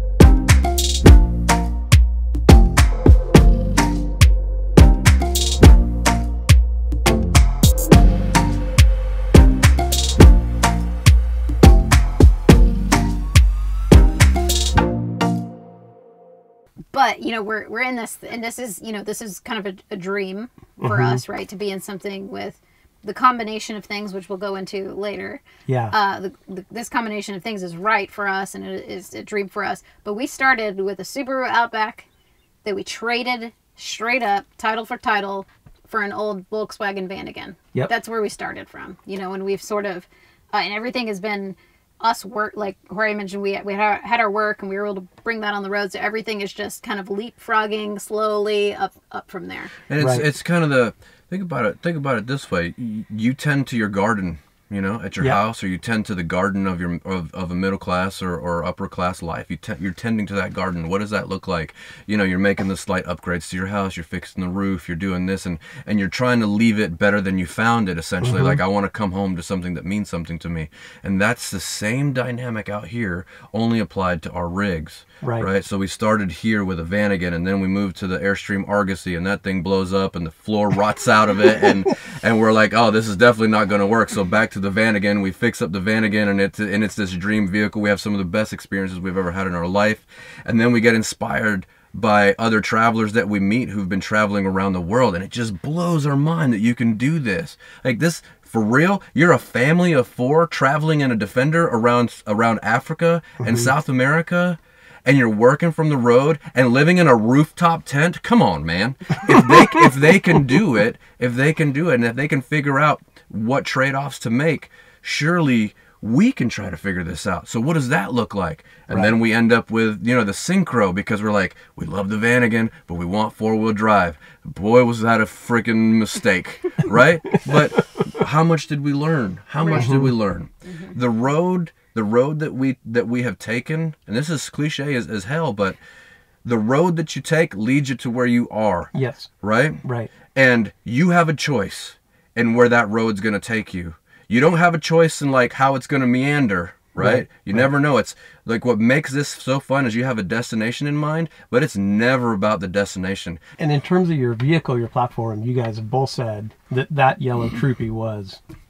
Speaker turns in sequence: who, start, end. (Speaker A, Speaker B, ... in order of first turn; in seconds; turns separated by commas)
Speaker A: 16.9-32.1, Speaker B: 20.8-21.2, Speaker B: 25.6-25.9, Speaker A: 32.6-49.7, Speaker C: 49.9-135.8, Speaker B: 50.0-50.2, Speaker B: 68.2-68.6, Speaker B: 75.2-75.5, Speaker B: 103.4-103.7, Speaker B: 127.4-128.0, Speaker A: 129.6-130.0, Speaker B: 129.8-130.1, Speaker A: 130.7-130.9, Speaker C: 136.4-153.4, Speaker B: 138.9-139.3, Speaker B: 139.8-140.1, Speaker B: 147.0-147.7, Speaker B: 153.6-158.4